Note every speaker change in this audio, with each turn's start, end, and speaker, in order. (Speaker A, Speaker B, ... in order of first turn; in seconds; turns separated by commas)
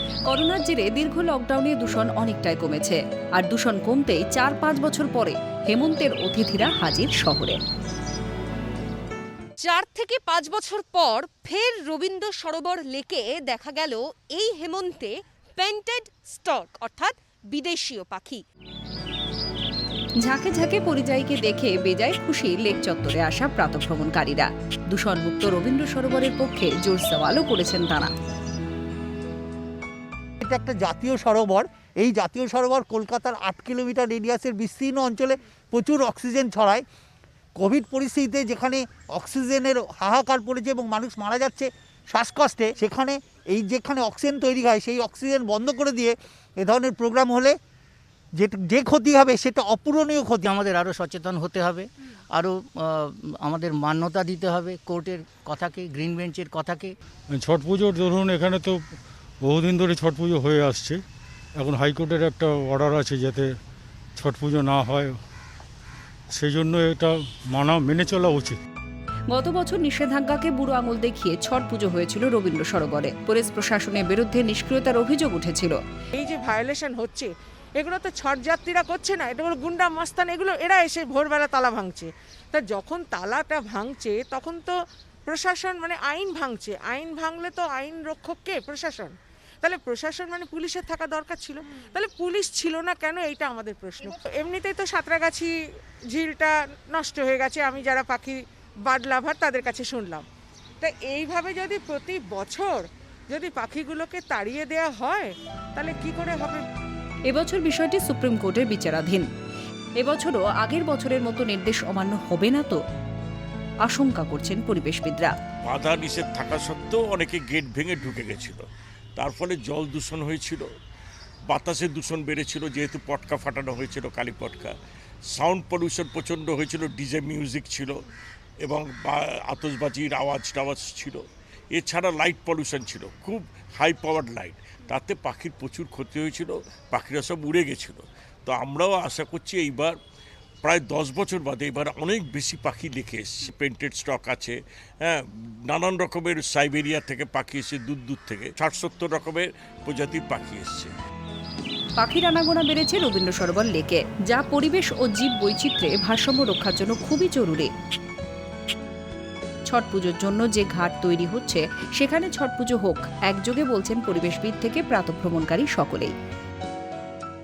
Speaker A: 0.3-7.6, Speaker B: 9.6-18.4, Speaker A: 20.2-28.1, Speaker C: 30.4-36.8, Speaker C: 37.6-47.5, Speaker C: 48.4-50.5, Speaker D: 50.5-56.9, Speaker E: 57.3-58.8, Speaker E: 59.4-61.0, Speaker E: 61.6-63.5, Speaker E: 64.2-65.2, Speaker E: 66.3-68.6, Speaker A: 69.3-75.8, Speaker F: 76.1-84.7, Speaker F: 85.3-95.5, Speaker F: 96.1-100.2, Speaker F: 100.8-106.6, Speaker A: 107.3-109.2, Speaker A: 110.0-112.8, Speaker A: 113.8-115.3, Speaker G: 115.6-118.6, Speaker G: 119.2-120.7, Speaker G: 121.5-124.7, Speaker G: 125.3-127.9, Speaker G: 128.6-131.2, Speaker G: 131.7-139.9, Speaker G: 140.6-150.9, Speaker A: 152.0-157.7, Speaker A: 159.7-166.1